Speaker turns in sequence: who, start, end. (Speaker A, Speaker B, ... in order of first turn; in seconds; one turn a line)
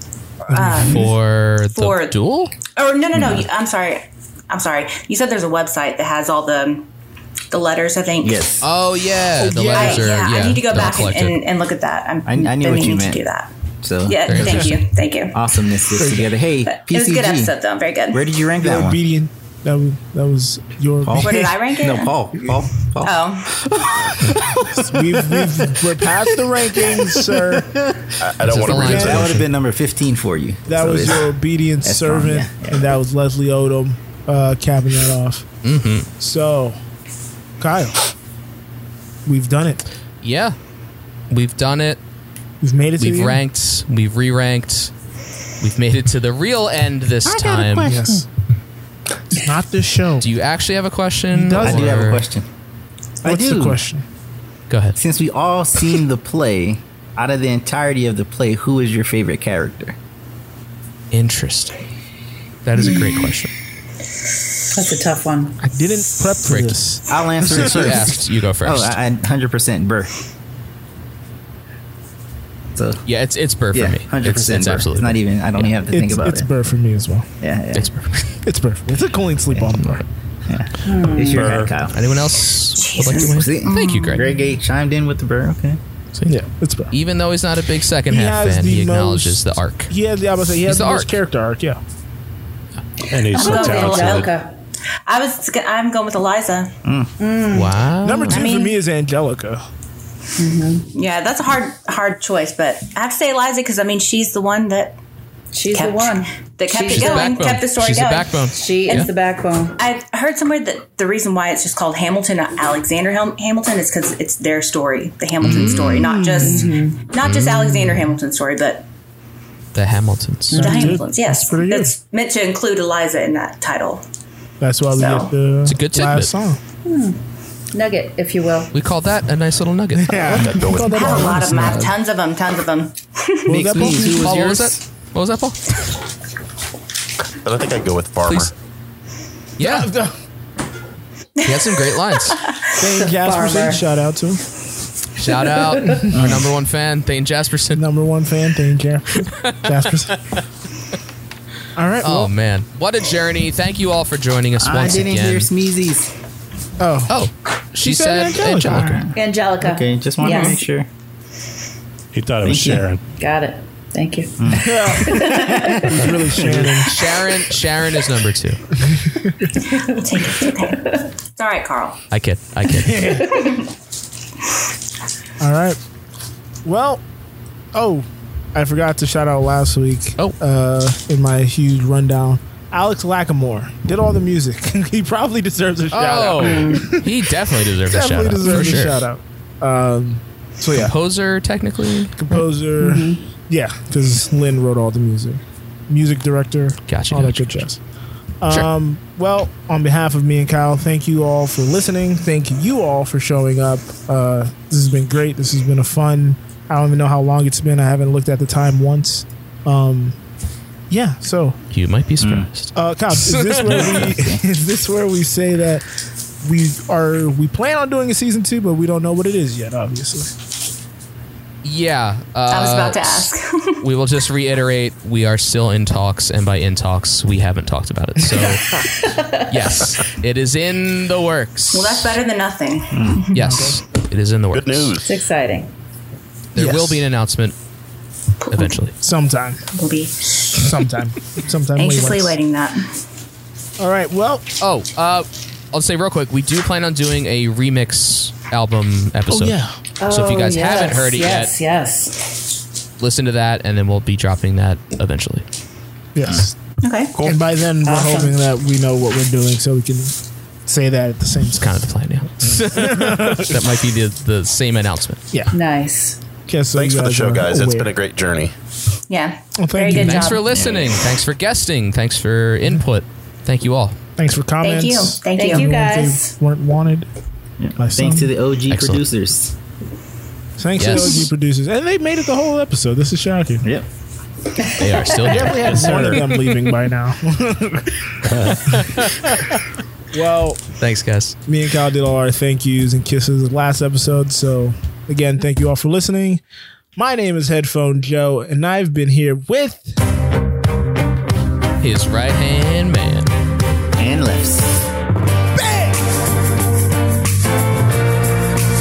Speaker A: 0.5-1.1
Speaker B: 0.5-1.0
Speaker C: 0.6-2.5
Speaker A: 1.7-2.2
Speaker A: 2.8-6.9
Speaker D: 3.1-3.5
Speaker A: 7.5-8.5
Speaker D: 8.2-8.6
Speaker C: 8.6-11.4
Speaker B: 9.4-10.0
Speaker A: 9.7-13.5
Speaker D: 12.2-13.2
Speaker D: 13.8-14.7
Speaker A: 14.1-15.3
Speaker C: 14.3-14.8
Speaker D: 15.3-17.5
Speaker B: 16.0-16.3
Speaker A: 16.7-18.3
Speaker D: 18.1-19.0
Speaker B: 18.6-21.5
Speaker D: 21.0-23.3
Speaker A: 21.2-22.1
Speaker A: 23.0-23.6
Speaker B: 24.8-27.7
Speaker E: 28.2-29.2
Speaker C: 28.4-29.5
Speaker B: 28.7-29.3
Speaker D: 28.8-31.3
Speaker B: 30.7-35.5
Speaker D: 31.8-32.9
Speaker C: 35.6-36.1
Speaker B: 36.2-36.8
Speaker B: 37.6-38.0
Speaker B: 39.3-39.8
Speaker C: 40.2-40.6
Speaker C: 41.3-42.0
Speaker B: 42.6-43.4
Speaker C: 43.0-44.9
Speaker C: 45.6-48.0
Speaker D: 47.2-48.2
Speaker B: 47.9-48.2
Speaker B: 49.5-50.2
Speaker C: 50.2-52.2
Speaker B: 51.3-51.8
Speaker D: 51.6-52.5
Speaker D: 53.2-53.8
Speaker B: 53.2-54.0
Speaker C: 54.7-55.0
Speaker D: 55.0-60.0
Speaker C: 61.1-61.8
Speaker C: 62.6-63.5
Speaker F: 62.8-63.2
Speaker F: 64.7-65.6
Speaker B: 65.6-67.9
Speaker C: 66.5-66.8
Speaker D: 67.1-70.1
Speaker C: 67.4-69.0
Speaker D: 72.8-73.0
Speaker C: 73.0-75.7
Speaker D: 73.7-76.5
Speaker B: 75.9-77.3
Speaker D: 77.4-77.9
Speaker C: 77.7-78.2
Speaker B: 78.5-80.0
Speaker D: 79.5-79.9
Speaker D: 80.5-82.0
Speaker F: 80.8-81.5
Speaker G: 81.4-81.7
Speaker C: 81.4-84.2
Speaker A: 82.8-84.4
Speaker D: 83.1-85.8
Speaker B: 86.3-86.9
Speaker C: 86.9-89.9
Speaker B: 88.1-91.8
Speaker C: 90.7-91.1
Speaker G: 93.1-94.3
Speaker F: 93.3-94.5
Speaker A: 93.3-94.3
Speaker A: 95.1-96.7
Speaker D: 96.8-97.1
Speaker F: 97.2-97.8
Speaker C: 97.5-98.3
Speaker B: 98.0-99.6
Speaker A: 98.3-98.8
Speaker F: 100.4-100.9
Speaker A: 100.9-105.0
Speaker F: 105.5-107.3
Speaker A: 105.7-109.1
Speaker C: 106.9-109.1
Speaker F: 108.5-109.8
Speaker A: 109.8-118.9
Speaker C: 115.4-116.1
Speaker B: 116.1-116.8
Speaker F: 116.4-117.0
Speaker C: 117.2-117.8
Speaker C: 119.8-120.6
Speaker F: 120.5-121.0
Speaker B: 120.5-122.0
Speaker A: 120.6-124.0
Speaker B: 124.6-126.6
Speaker A: 124.9-125.3
Speaker C: 125.7-126.3
Speaker F: 126.8-127.2
Speaker F: 127.7-128.7
Speaker C: 128.7-130.3
Speaker B: 130.0-131.9
Speaker E: 130.3-131.4
Speaker A: 130.7-133.4
Speaker B: 133.5-134.3
Speaker D: 133.5-134.8
Speaker C: 134.0-135.6
Speaker E: 137.4-138.5
Speaker C: 139.6-139.9
Speaker B: 139.6-140.1
Speaker C: 141.4-142.4
Speaker A: 142.3-142.6
Speaker B: 142.8-144.4
Speaker F: 143.0-143.8
Speaker C: 145.2-147.8
Speaker D: 146.1-146.5
Speaker B: 147.8-150.2
Speaker B: 151.8-152.3
Speaker C: 152.0-155.5
Speaker D: 154.6-156.1
Speaker B: 156.8-157.1
Speaker C: 157.1-159.0
Speaker B: 157.8-159.1
Speaker D: 158.7-160.9
Speaker F: 159.1-160.6
Speaker G: 162.1-163.0
Speaker D: 162.4-162.8
Speaker F: 163.2-166.0
Speaker D: 164.4-166.7
Speaker B: 164.7-167.0
Speaker C: 166.8-168.6
Speaker A: 169.9-172.0
Speaker F: 170.4-170.9
Speaker C: 172.1-173.3
Speaker B: 172.9-173.5
Speaker B: 175.4-175.8
Speaker B: 176.7-177.0
Speaker B: 177.7-187.0
Speaker C: 185.9-189.0
Speaker F: 186.5-186.8
Speaker B: 187.9-190.9
Speaker C: 190.8-192.1
Speaker B: 192.2-197.8
Speaker F: 192.3-193.2
Speaker C: 196.9-197.7
Speaker B: 198.4-210.2
Speaker B: 210.9-211.6
Speaker C: 211.7-214.1
Speaker D: 212.2-212.5
Speaker B: 212.8-215.8
Speaker D: 213.6-214.4
Speaker B: 216.4-220.3
Speaker C: 221.6-228.8
Speaker A: 222.5-223.8
Speaker C: 229.3-232.1
Speaker A: 231.7-233.4
Speaker D: 232.9-233.3
Speaker C: 233.3-235.0
Speaker B: 233.4-233.8
Speaker E: 234.5-235.1
Speaker F: 235.0-235.7
Speaker C: 236.6-237.6
Speaker A: 238.5-238.7
Speaker C: 238.5-238.9
Speaker B: 239.0-239.6
Speaker A: 239.8-240.5
Speaker B: 240.6-242.4
Speaker A: 241.8-242.9
Speaker B: 243.8-244.4
Speaker C: 244.6-251.5
Speaker B: 249.3-249.7
Speaker F: 250.0-252.4
Speaker C: 253.0-255.4
Speaker B: 256.2-256.5
Speaker A: 256.8-257.1
Speaker B: 257.2-260.1
Speaker F: 257.8-258.4
Speaker B: 260.7-261.8
Speaker C: 261.6-265.2
Speaker B: 262.6-263.5
Speaker F: 265.5-266.2
Speaker B: 266.5-267.9
Speaker E: 266.7-268.5
Speaker A: 269.1-269.4
Speaker B: 269.6-270.3
Speaker F: 269.8-270.5
Speaker C: 270.0-274.0
Speaker D: 270.5-271.0
Speaker B: 274.2-277.1
Speaker A: 274.6-275.7
Speaker F: 275.4-276.3
Speaker D: 277.6-279.5
Speaker B: 277.8-278.3
Speaker C: 278.7-279.0
Speaker B: 280.6-283.7
Speaker C: 280.8-281.3
Speaker C: 284.8-286.2
Speaker B: 285.3-287.9
Speaker D: 285.7-286.2
Speaker C: 288.3-289.6
Speaker B: 290.1-290.6
Speaker C: 290.8-291.4
Speaker B: 291.5-296.4
Speaker B: 297.0-300.0
Speaker C: 301.8-303.3
Speaker D: 304.0-304.7